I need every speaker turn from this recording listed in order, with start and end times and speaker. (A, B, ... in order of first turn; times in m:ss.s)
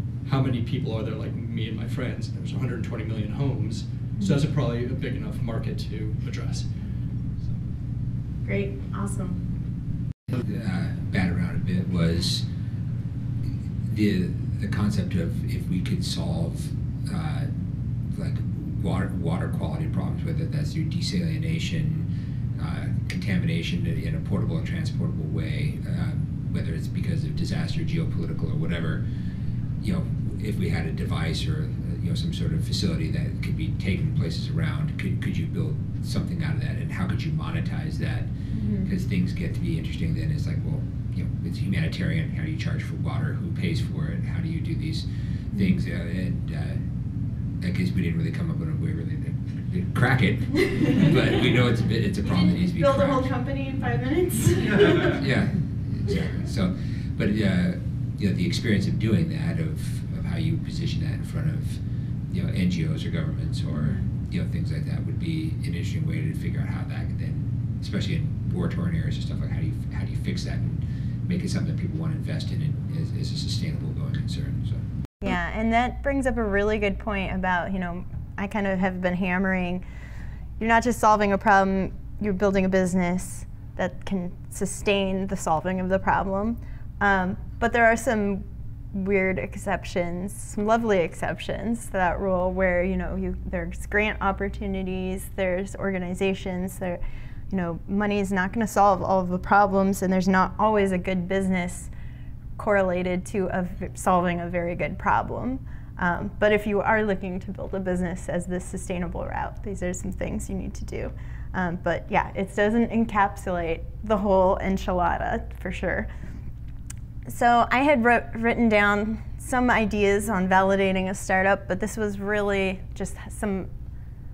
0:00.2-0:06.7 A
0:08.4-0:09.4 B
0:10.3-0:12.4 C
0:13.8-0:17.5 C
0:18.0-0:29.0 C
0:29.8-0:46.8 C
0:38.5-0:38.9 B
0:45.5-0:45.8 B
0:47.6-0:53.3 C
0:50.7-0:51.2 B
0:52.2-0:55.2 B
0:55.0-1:14.8 C
1:03.7-1:04.0 B
1:15.2-1:19.8 B
1:20.6-1:41.9 B
1:42.6-1:56.1 B
1:57.3-2:03.7 B